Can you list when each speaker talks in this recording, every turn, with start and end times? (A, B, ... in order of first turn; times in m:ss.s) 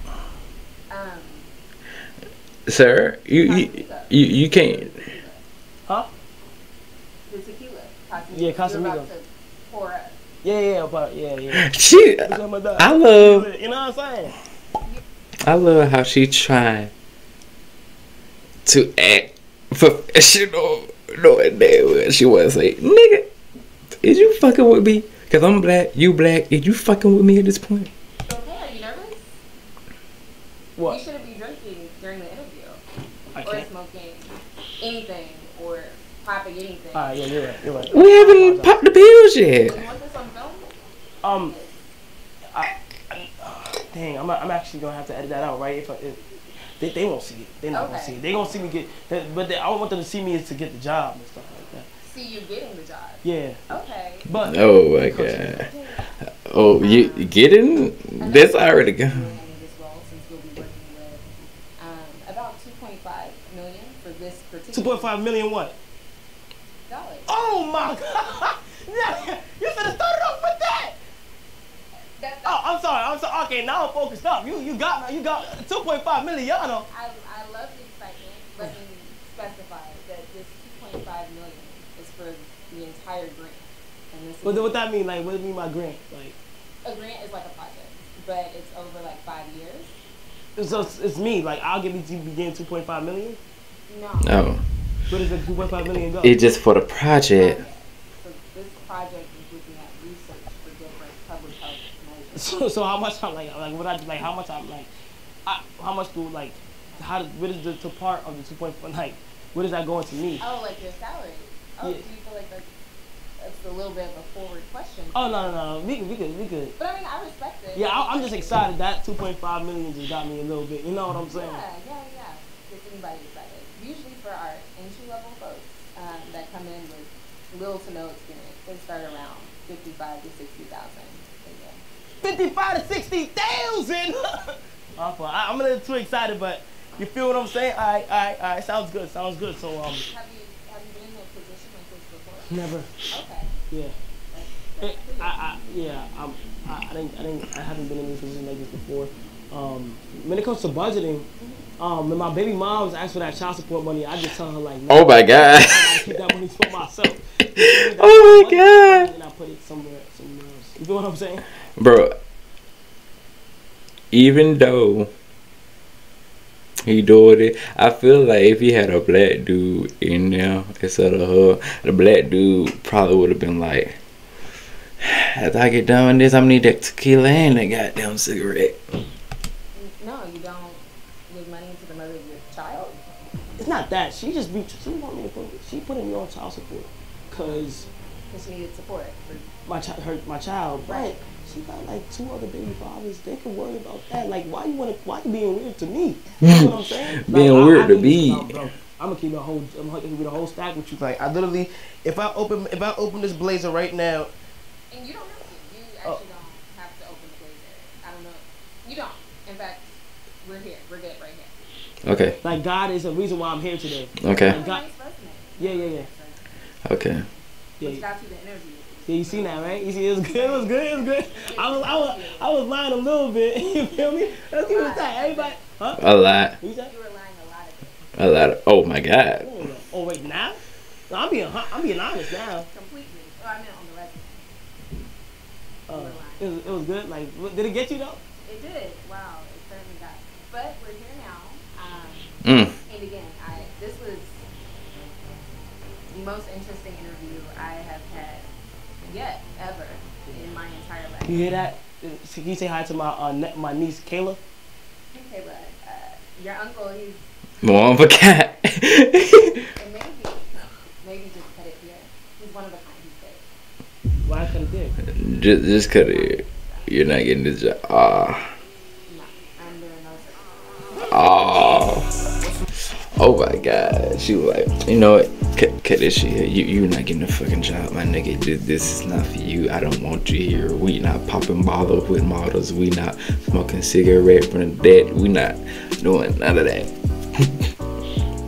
0:00.9-0:01.5 A
0:02.7-0:05.0 B
0:03.3-0:05.4 A
0:07.3-0:10.2 A
0:08.3-0:09.1 C
0:10.4-0:14.3 C
0:11.7-0:12.2 B
0:12.8-0:13.5 B
0:15.4-0:16.9 B
0:18.6-0:23.2 B
0:24.0-0:27.9 B
0:28.2-0:29.4 A
0:30.8-0:32.8 A
0:33.3-0:33.7 C
0:33.4-0:37.1 A
0:36.9-0:38.8 C
0:37.9-0:39.8 B
0:39.6-0:41.9 A
0:41.2-0:41.5 C
0:42.5-0:46.2 C
0:46.8-0:51.9 C
0:47.7-0:48.2 A
0:52.0-0:54.3 A
0:53.2-0:53.6 C
0:54.2-0:55.7 C
0:54.4-0:55.7 B
0:55.7-0:56.0 A
0:56.5-0:59.3 B
0:56.8-0:57.4 A
0:58.2-1:01.3 A
1:01.8-1:05.1 A
1:04.7-1:05.8 C
1:06.9-1:07.3 A
1:07.3-1:11.0 C
1:12.2-1:12.6 A
1:12.4-1:16.8 C
1:16.9-1:24.7 A
1:24.4-1:26.4 C
1:26.8-1:29.9 A
1:30.6-1:33.4 C
1:30.6-1:31.0 A
1:33.9-1:34.4 A
1:34.2-1:34.6 B
1:35.1-1:36.4 C
1:36.2-1:37.6 B
1:37.4-1:42.6 A
1:42.3-1:44.9 C
1:45.4-1:50.4 C
1:50.4-1:52.7 A
1:53.4-1:55.4 A
1:55.1-1:56.7 C
1:56.8-1:58.6 A
1:57.7-2:01.6 C
2:01.3-2:11.8 A
2:12.2-2:20.0 C
2:20.1-2:23.6 A
2:22.5-2:22.9 C
2:23.7-2:23.9 C
2:24.3-2:25.4 A
2:24.8-2:31.3 C
2:31.4-2:31.7 A
2:31.8-2:41.4 C
2:34.9-2:36.0 B
2:38.0-2:39.1 B
2:41.8-2:42.2 B
2:44.1-2:45.1 B
2:46.8-2:54.0 B
2:55.0-2:58.8 B
2:59.7-3:03.0 A
3:03.6-3:07.9 C
3:07.3-3:07.6 A
3:08.3-3:09.5 A
3:09.6-3:24.3 C
3:10.9-3:11.2 A
3:16.4-3:16.7 B
3:17.3-3:18.5 B
3:24.9-3:31.6 A
3:32.0-3:32.4 B
3:32.4-3:34.8 C
3:34.2-3:34.6 B
3:34.2-3:42.6 A
3:35.6-3:36.1 C
3:36.8-3:37.2 B
3:37.8-3:38.0 C
3:39.0-3:46.0 C
3:43.9-3:45.6 A
3:46.0-3:46.6 B
3:46.6-3:46.9 C
3:46.8-3:48.0 A
3:48.2-3:49.5 B
3:49.4-3:52.7 C
3:52.7-3:54.4 A
3:55.9-3:58.2 C
3:55.9-3:56.8 A
3:58.4-4:04.5 A
4:02.4-4:02.7 B
4:06.1-4:08.5 A
4:09.0-4:11.4 A
4:10.3-4:10.5 C
4:11.3-4:14.4 C
4:15.1-4:18.7 A
4:17.6-4:19.5 B
4:19.7-4:23.5 A
4:24.2-4:25.0 C
4:25.2-4:28.5 B
4:25.8-4:27.0 A
4:29.1-4:30.8 A
4:31.0-4:32.1 B
4:33.2-4:46.9 B